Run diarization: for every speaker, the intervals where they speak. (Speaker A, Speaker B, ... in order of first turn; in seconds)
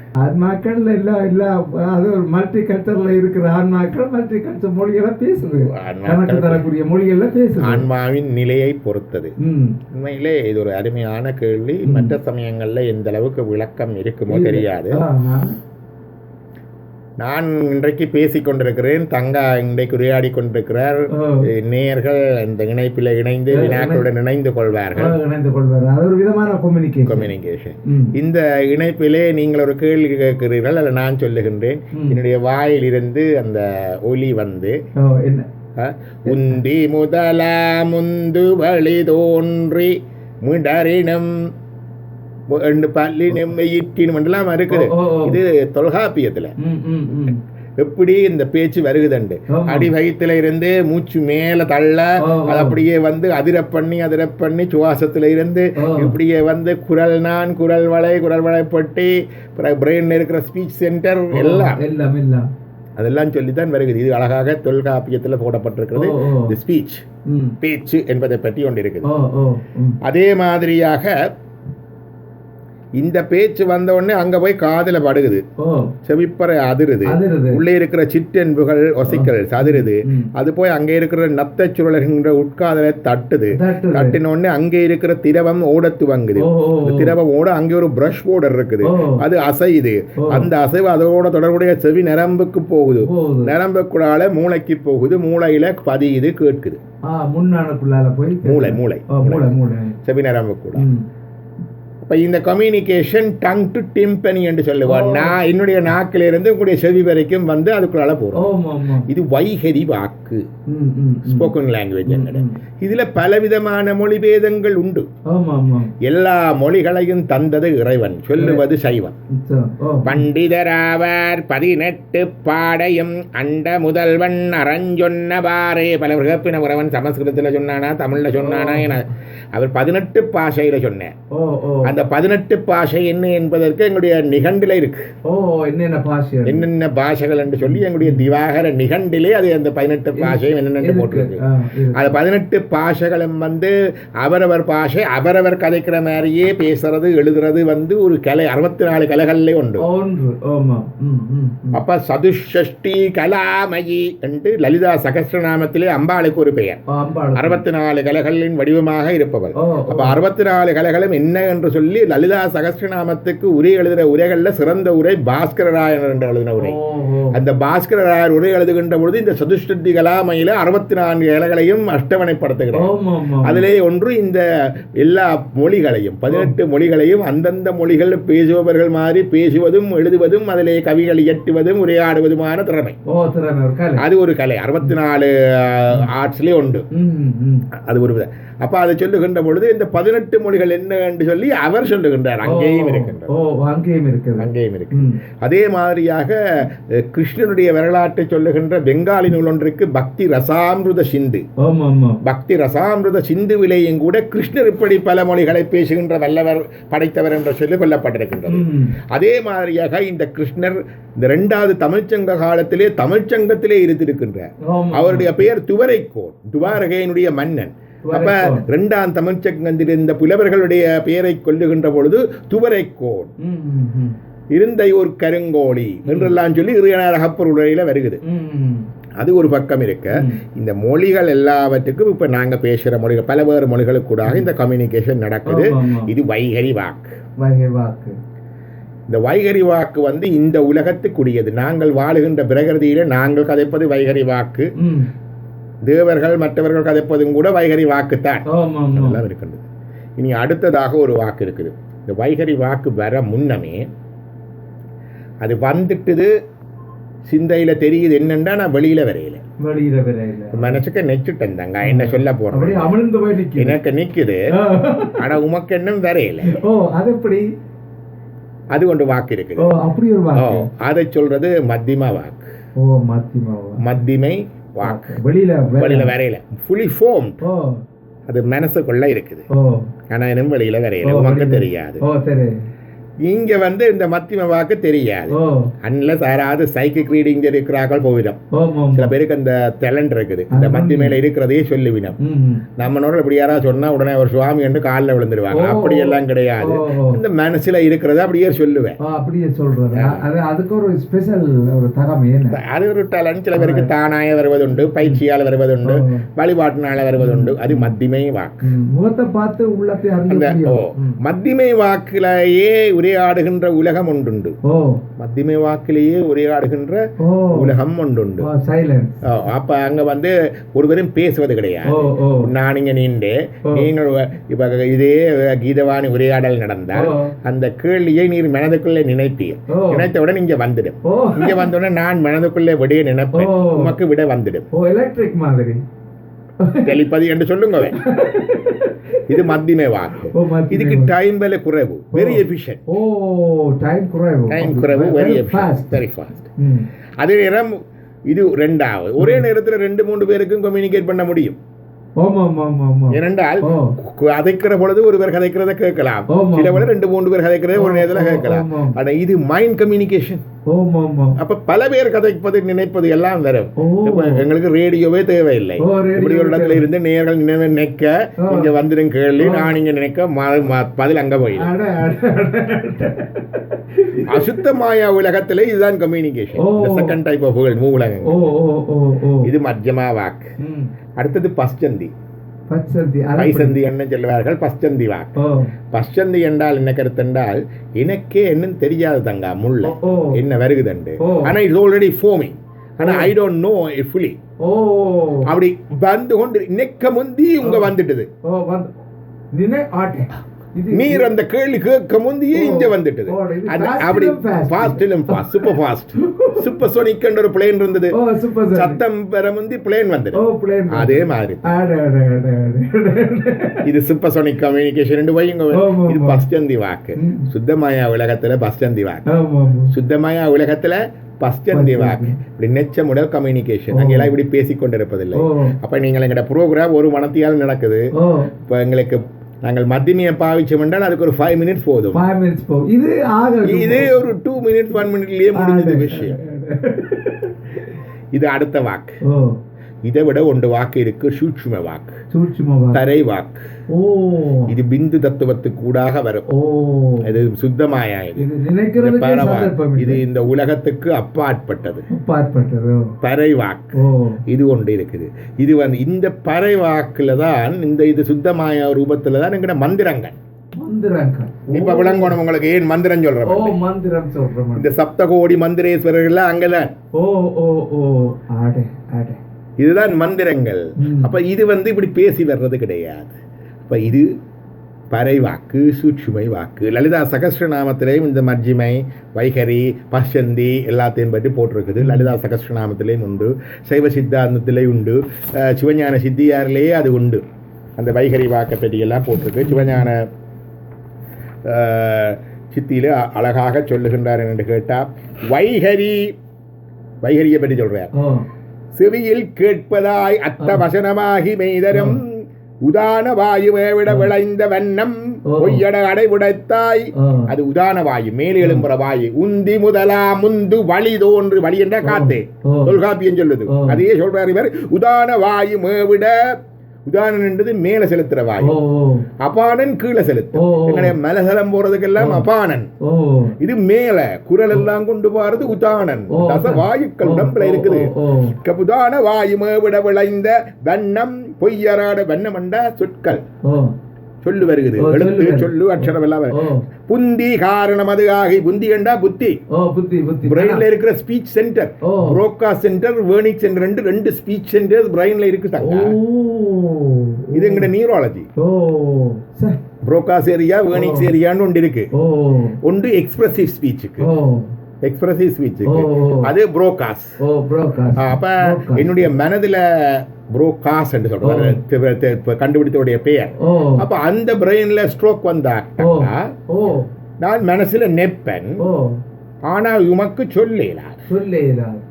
Speaker A: 0.2-7.9, 9.4-9.8, 11.8-12.2, 14.3-15.5, 21.1-21.5, 23.5-24.1, 25.0-27.3, 27.9-28.1, 35.0-35.5, 36.3-36.5, 44.7-45.4, 46.6-47.4, 49.5-49.9, 52.2-52.8, 55.8-56.2, 61.3-62.5, 65.9-66.5, 67.3-67.6, 69.0-70.0, 75.6-75.9, 77.1-77.6, 79.1-80.3, 83.5-84.2, 86.4-87.2, 88.8-89.2, 90.2-90.5, 93.0-93.5, 97.1-100.0, 100.8-101.0, 104.9-105.4, 108.3-109.1, 110.7-111.5, 112.1-112.6, 115.3-115.9, 118.4-118.6, 119.3-120.2, 128.3-129.0, 131.3-131.9, 135.3-136.7, 137.6-138.2, 140.2-142.1, 149.8-151.8, 156.9-157.6, 159.6-160.2, 166.6-167.4, 172.7-173.7, 183.1-184.0, 186.9-187.7, 192.4-195.2, 201.6-202.2, 208.5-208.9, 214.7-215.3, 218.0-218.6, 223.4-224.2, 226.1-226.4, 228.2-228.9, 230.1-230.4, 235.5-236.1, 237.4-238.2, 244.8-245.1, 248.5-249.2, 259.6-260.8, 261.8-263.8, 264.6-265.3, 266.4-267.4, 269.6-270.7, 272.8-273.8, 274.8-276.1, 277.4-277.8, 279.5-279.9, 281.0-282.5, 285.3-285.7, 288.5-289.1, 290.5-291.2, 292.2-292.7, 295.5-297.2, 299.0-302.6, 303.5-303.9, 305.8-306.2, 307.2-307.9, 308.6-311.2, 314.6-315.0, 317.2-317.8, 318.4-319.2, 321.9-322.5, 326.9-327.3, 329.7-330.1, 331.1-331.7, 333.3-333.9, 334.7-335.8, 336.6-337.0, 337.9-339.5, 340.3-341.1, 342.1-346.0, 346.6-346.9, 349.2-349.4, 352.2-353.9, 356.3-356.9, 357.7-359.0, 360.7-361.4, 363.8-364.4, 365.8-366.8, 368.4-368.7, 369.4-369.8, 371.5-374.5, 376.6-377.1, 378.2-379.5, 380.6-380.9, 382.7-383.8, 385.4-385.7, 389.8-390.4, 391.2-391.6, 393.0-393.3, 394.6-395.5, 397.6-397.9, 398.4-398.9, 399.5-401.3, 402.5-406.7, 408.1-409.0, 410.3-413.9, 415.7-416.4, 417.2-417.5, 419.3-419.9, 421.7-422.4, 423.9-424.4, 425.4-425.8, 428.2-428.5, 432.1-434.2, 435.5-437.6, 439.2-439.6, 442.3-443.0, 443.9-444.8, 446.5-447.3, 448.4-450.2, 452.1-453.1, 453.9-454.4, 460.8-462.4, 463.4-464.9, 467.1-469.4, 471.0-471.3, 482.0-482.4, 489.6-490.1, 498.1-498.5, 501.9-502.2, 505.5-505.8, 507.2-507.5, 508.6-508.9, 512.0-513.0, 513.7-514.0, 518.6-519.3, 520.5-521.1, 522.2-522.5, 523.0-523.5, 526.3-528.5, 533.6-533.9, 535.0-536.8, 539.7-540.9, 542.0-542.4, 545.8-547.9, 548.6-549.8, 550.9-551.3, 552.1-552.8, 554.2-554.7, 555.9-556.5, 557.4-559.3, 561.4-561.8, 563.6-564.0, 566.0-567.1, 568.8-569.2, 571.3-572.0
Speaker B: 5.7-6.7, 7.6-9.3, 9.9-15.0, 17.2-25.1, 27.1-34.8, 35.8-41.3, 42.5-46.5, 47.8-61.8, 63.0-67.0, 67.6-69.1, 70.0-71.2, 73.0-75.5, 76.0-96.8, 98.4-99.5, 100.0-100.9, 102.0-108.5, 109.1-110.5, 111.2-115.1, 116.0-119.2, 120.0-131.1, 131.8-135.0, 136.5-141.4, 141.9-149.8, 151.7-156.8, 157.3-166.8, 167.3-172.9, 173.4-183.0, 184.0-186.9, 187.7-193.3, 194.4-201.5, 202.2-223.3, 224.5-228.2, 229.2-237.2, 239.1-244.7, 245.8-249.7, 250.2-253.9, 255.4-256.3, 257.2-259.4, 260.5-263.0, 263.6-264.4, 265.2-266.5, 268.7-269.7, 270.4-272.4, 273.8-275.1, 275.8-277.4, 278.3-279.5, 280.1-282.0, 283.3-288.4, 288.9-292.2, 292.8-299.0, 299.9-300.2, 302.5-308.6, 310.3-314.6, 315.2-317.0, 317.6-318.5, 319.2-334.7, 336.8-338.0, 339.3-342.8, 344.5-346.5, 347.2-347.7, 348.3-351.6, 353.1-360.4, 361.4-371.7, 374.3-378.3, 379.4-380.5, 381.2-382.1, 383.4-385.3, 385.9-394.4, 395.5-398.3, 400.9-408.2, 408.7-410.4, 410.9-411.7, 413.8-419.3, 419.9-428.1, 428.7-432.2, 433.7-436.4, 438.4-439.2, 440.1-442.2, 442.9-443.6, 444.7-446.5, 447.2-448.5, 449.0-452.1, 453.2-454.0, 454.5-460.4, 461.7-463.8, 464.8-466.9, 469.8-474.3, 475.1-487.4, 488.0-490.3, 491.6-496.2, 497.2-498.1, 498.9-516.3, 517.1-518.8, 519.4-522.9, 523.6-533.4, 534.4-539.6, 540.5-546.2, 547.5-548.5, 550.0-552.1, 552.8-554.3, 555.0-557.4, 558.2-566.5, 567.4-568.8, 569.7-571.1